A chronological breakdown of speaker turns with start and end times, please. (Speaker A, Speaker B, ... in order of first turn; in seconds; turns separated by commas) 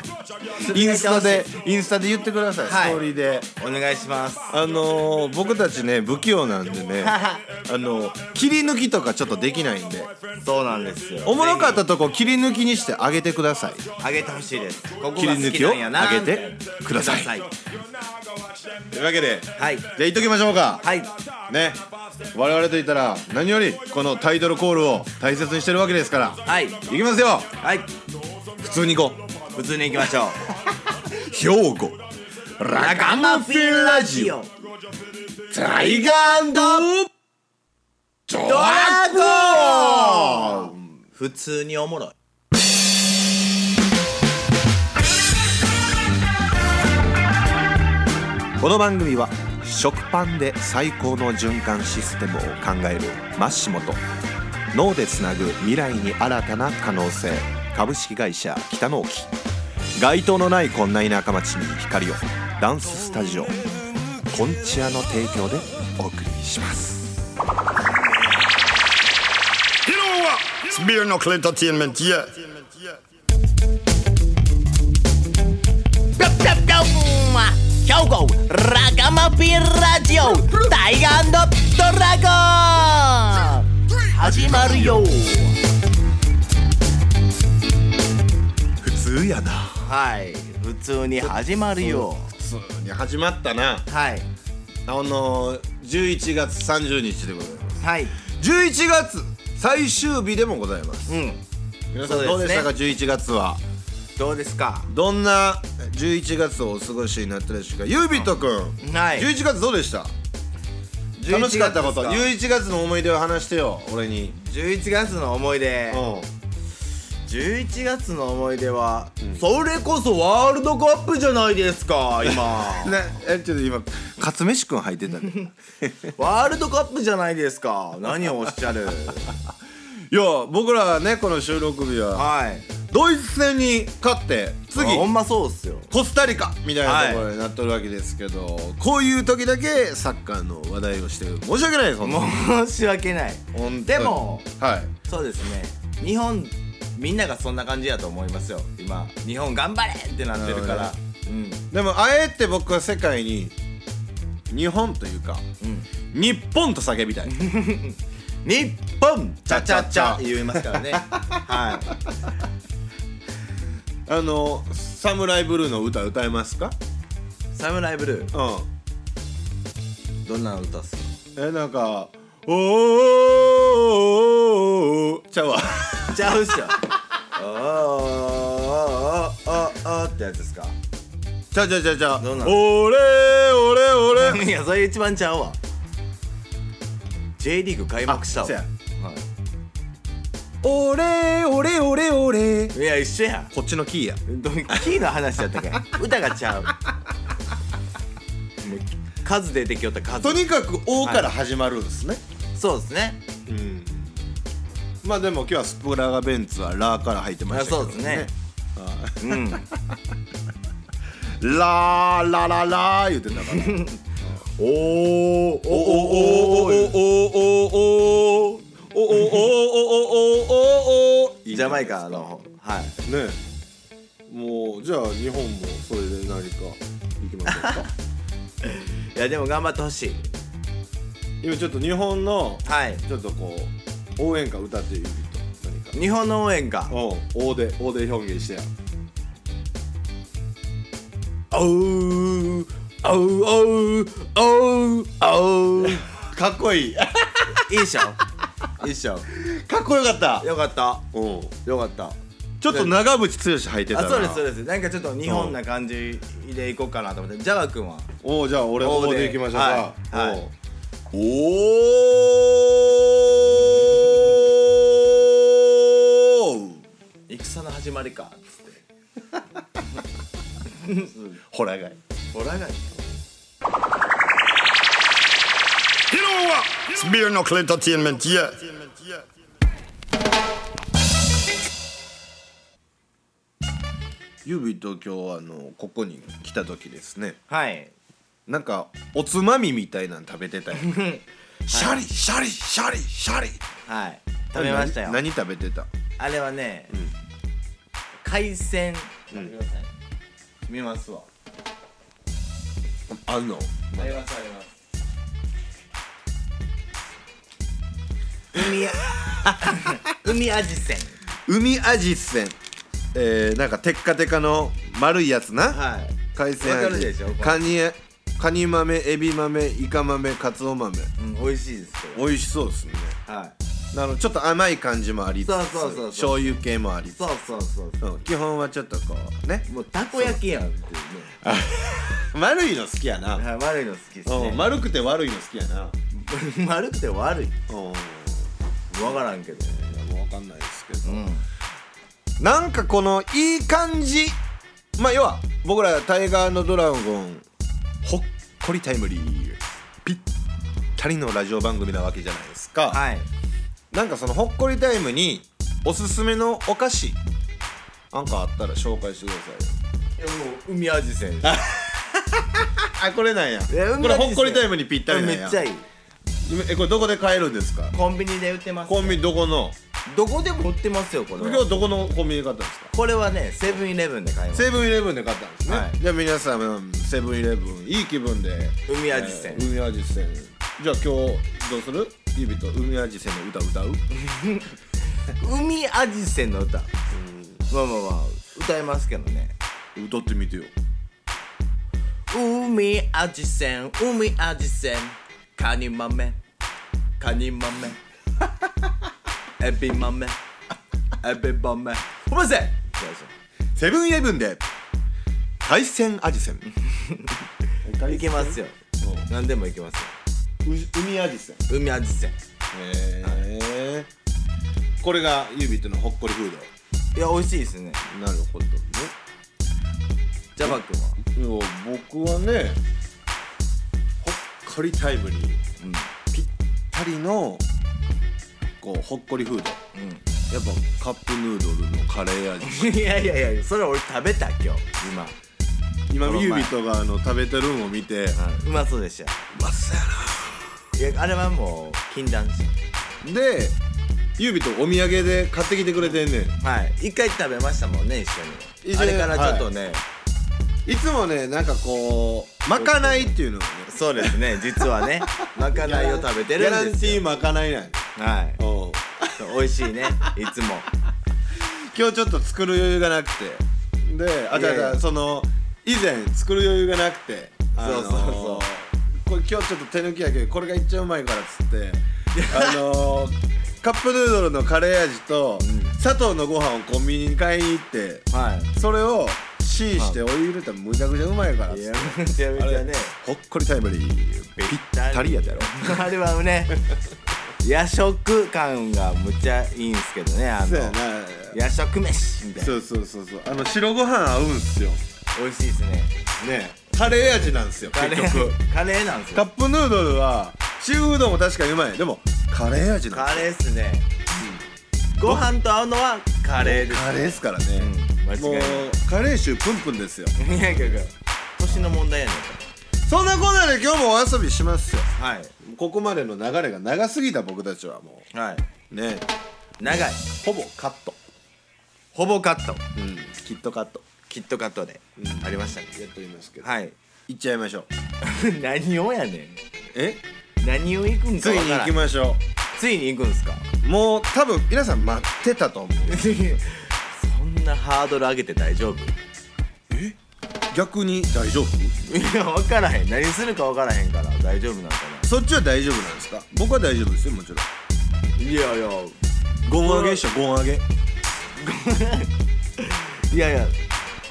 Speaker A: 0.6-1.5, Speaker B: 0.7-3.5, Speaker A: 2.6-3.0, Speaker A: 3.6-4.5, Speaker B: 4.5-10.1, Speaker A: 7.0-7.4, Speaker A: 10.4-11.8, Speaker B: 11.2-13.8, Speaker A: 14.0-17.5, Speaker B: 15.1-17.3, Speaker B: 18.9-20.8, Speaker A: 19.6-19.9, Speaker A: 20.8-21.1, Speaker B: 21.5-21.8, Speaker B: 22.3-27.5, Speaker A: 26.4-26.8, Speaker A: 27.6-27.9, Speaker B: 28.6-29.2, Speaker A: 29.5-30.4, Speaker B: 30.7-32.0, Speaker B: 32.6-34.4, Speaker A: 32.8-34.5, Speaker B: 35.5-37.1, Speaker A: 36.5-36.9, Speaker B: 38.3-40.8, Speaker A: 38.4-42.1, Speaker B: 48.6-54.0, Speaker B: 54.7-59.3, Speaker B: 60.0-63.6, Speaker B: 64.3-67.2, Speaker C: 69.8-73.0, Speaker A: 76.2-85.5, Speaker B: 84.1-85.1, Speaker B: 88.8-89.8, Speaker A: 89.8-92.3, Speaker B: 91.8-93.8, Speaker A: 93.9-94.3, Speaker B: 94.8-101.2, Speaker A: 97.8-98.2, Speaker A: 101.1-101.4, Speaker B: 101.9-103.6, Speaker A: 102.0-102.7, Speaker A: 104.2-104.9, Speaker B: 104.9-110.1, Speaker A: 108.8-109.3, Speaker A: 111.2-112.3, Speaker B: 111.3-114.3, Speaker A: 114.3-116.0, Speaker B: 115.9-116.3, Speaker A: 117.3-123.0, Speaker B: 122.2-126.1, Speaker A: 126.2-129.3, Speaker B: 130.1-132.3, Speaker A: 132.1-132.7, Speaker B: 132.9-135.1, Speaker A: 134.7-135.9, Speaker B: 135.9-142.3, Speaker A: 136.8-137.3, Speaker A: 142.0-144.5, Speaker B: 143.5-144.9, Speaker A: 145.1-151.6, Speaker B: 150.3-150.9, Speaker B: 151.7-153.5, Speaker B: 154.5-155.4, Speaker A: 155.6-155.9, Speaker B: 156.1-157.3, Speaker A: 157.3-162.0, Speaker B: 159.5-161.9, Speaker B: 164.1-166.8, Speaker A: 167.5-168.3, Speaker B: 168.3-168.7, Speaker A: 170.2-171.2, Speaker B: 171.3-176.5, Speaker A: 176.1-180.8, Speaker B: 181.5-184.4, Speaker A: 182.2-182.6, Speaker A: 184.1-185.6, Speaker A: 187.4-189.2, Speaker B: 188.1-188.7, Speaker B: 190.6-192.8, Speaker A: 192.7-193.5, Speaker B: 193.5-194.8, Speaker A: 194.3-196.8, Speaker A: 198.6-200.4, Speaker B: 200.2-202.2, Speaker A: 201.0-201.3, Speaker A: 202.5-203.2, Speaker B: 203.4-204.2, Speaker B: 205.0-210.0, Speaker A: 207.5-208.3, Speaker A: 209.2-209.7, Speaker B: 211.4-214.4, Speaker A: 213.5-214.0, Speaker A: 214.6-216.9, Speaker B: 215.7-222.3, Speaker A: 221.5-223.0, Speaker B: 223.0-223.4, Speaker B: 224.3-227.9, Speaker A: 227.5-227.9, Speaker A: 228.6-230.3, Speaker B: 231.4-236.0, Speaker A: 232.6-233.0, Speaker A: 235.9-236.9, Speaker B: 236.9-238.7, Speaker A: 241.5-246.1, Speaker B: 245.8-247.7, Speaker A: 247.6-248.2, Speaker A: 248.8-249.3, Speaker B: 249.3-250.5, Speaker A: 250.4-251.0, Speaker B: 251.1-251.5, Speaker A: 251.6-252.9, Speaker B: 252.6-254.4, Speaker A: 253.9-258.1, Speaker B: 255.2-255.6, Speaker B: 258.2-260.5, Speaker A: 258.8-260.4, Speaker B: 261.1-266.8, Speaker A: 267.3-268.8, Speaker A: 270.7-271.4, Speaker B: 271.5-272.0, Speaker A: 272.3-273.0, Speaker C: 276.1-279.2, Speaker B: 284.4-287.4, Speaker A: 287.5-287.9, Speaker B: 288.5-290.9, Speaker A: 290.8-292.0, Speaker B: 291.7-293.6, Speaker A: 293.9-295.2, Speaker B: 294.5-295.9, Speaker A: 296.2-296.9, Speaker A: 298.2-299.9, Speaker A: 300.7-301.3, Speaker B: 303.1-304.2, Speaker A: 303.9-304.7, Speaker A: 308.5-309.1, Speaker B: 308.5-310.0, Speaker A: 309.6-311.2, Speaker B: 311.4-312.6, Speaker B: 313.1-315.8, Speaker A: 315.7-317.7, Speaker B: 316.3-321.1, Speaker A: 321.2-322.2, Speaker B: 322.1-323.2, Speaker A: 323.3-323.5, Speaker B: 323.9-327.2, Speaker A: 325.4-326.6, Speaker A: 327.1-328.0, Speaker B: 328.0-330.4, Speaker A: 329.6-331.4, Speaker B: 331.4-333.4, Speaker A: 333.3-334.7, Speaker B: 334.2-335.9, Speaker A: 336.1-337.6, Speaker B: 337.7-341.2, Speaker A: 338.9-339.8, Speaker A: 341.0-341.4, Speaker B: 342.4-344.4, Speaker B: 345.0-347.4, Speaker B: 348.0-350.2, Speaker B: 350.9-353.0, Speaker A: 352.9-353.3, Speaker B: 353.9-357.2, Speaker B: 358.1-359.8, Speaker A: 360.2-361.6, Speaker B: 361.4-365.6, Speaker A: 363.7-365.8, Speaker B: 366.4-367.9, Speaker A: 367.9-369.2, Speaker B: 368.9-369.8, Speaker A: 370.1-371.7, Speaker B: 371.4-372.9, Speaker A: 372.9-374.8, Speaker B: 374.5-384.0, Speaker A: 375.7-376.0, Speaker A: 378.9-379.7, Speaker A: 384.1-384.7, Speaker A: 385.2-386.9, Speaker B: 387.1-387.6, Speaker A: 387.7-389.5, Speaker B: 389.9-390.7, Speaker A: 392.3-396.4, Speaker A: 397.2-398.0, Speaker A: 399.6-400.4, Speaker A: 401.2-403.3, Speaker B: 403.8-404.6, Speaker B: 405.6-406.6, Speaker A: 406.8-407.4, Speaker B: 407.8-409.3, Speaker A: 408.1-408.8, Speaker A: 409.3-410.1, Speaker B: 410.6-411.6, Speaker A: 411.7-412.4, Speaker B: 412.7-414.1, Speaker B: 415.0-416.7, Speaker A: 417.1-418.0, Speaker B: 418.1-419.1, Speaker A: 420.6-421.2, Speaker B: 420.6-422.8, Speaker B: 424.2-425.6, Speaker A: 425.8-426.1, Speaker B: 426.3-427.6, Speaker B: 428.8-429.8, Speaker A: 429.9-430.2, Speaker B: 430.5-432.9, Speaker A: 432.6-435.4, Speaker B: 436.1-438.4, Speaker A: 436.2-436.7, Speaker A: 438.4-439.4, Speaker B: 439.5-440.6, Speaker A: 440.9-442.8, Speaker B: 443.2-443.8, Speaker B: 444.4-446.5, Speaker A: 446.0-450.0, Speaker B: 448.8-449.7, Speaker B: 450.9-458.0, Speaker A: 452.7-453.4, Speaker A: 453.9-457.3, Speaker A: 458.1-458.6, Speaker B: 458.6-459.5, Speaker A: 459.4-460.9, Speaker B: 461.6-486.0, Speaker A: 464.5-465.0, Speaker A: 467.8-468.7, Speaker A: 472.3-472.8, Speaker A: 475.6-475.9, Speaker A: 478.3-478.7, Speaker A: 481.7-483.1, Speaker A: 484.6-486.8, Speaker A: 487.6-491.0, Speaker B: 490.6-491.6, Speaker A: 491.5-492.8, Speaker B: 492.6-495.0, Speaker A: 495.3-496.4, Speaker B: 496.4-498.6, Speaker A: 496.9-499.5, Speaker B: 499.3-503.5, Speaker A: 503.1-504.1, Speaker B: 504.3-504.6, Speaker A: 505.1-508.9, Speaker B: 505.2-505.5, Speaker B: 506.6-510.4, Speaker A: 510.4-512.6, Speaker B: 513.0-515.1, Speaker A: 515.1-515.5, Speaker B: 515.6-518.3, Speaker A: 518.3-518.6, Speaker B: 518.9-519.3, Speaker A: 519.8-520.2, Speaker B: 519.8-521.2, Speaker A: 522.1-522.8, Speaker B: 523.0-524.0, Speaker A: 524.3-525.9, Speaker B: 525.2-526.7, Speaker A: 526.6-526.9, Speaker B: 527.3-527.9, Speaker A: 528.2-529.6, Speaker B: 529.9-530.2, Speaker A: 530.6-532.0, Speaker B: 531.4-532.4, Speaker A: 532.7-533.7, Speaker B: 533.8-536.2, Speaker A: 536.1-539.2, Speaker B: 539.9-540.1, Speaker B: 540.7-541.9, Speaker A: 542.0-545.3, Speaker B: 545.2-547.7, Speaker A: 548.4-549.1, Speaker B: 549.6-550.8, Speaker A: 549.7-550.2, Speaker A: 551.6-553.8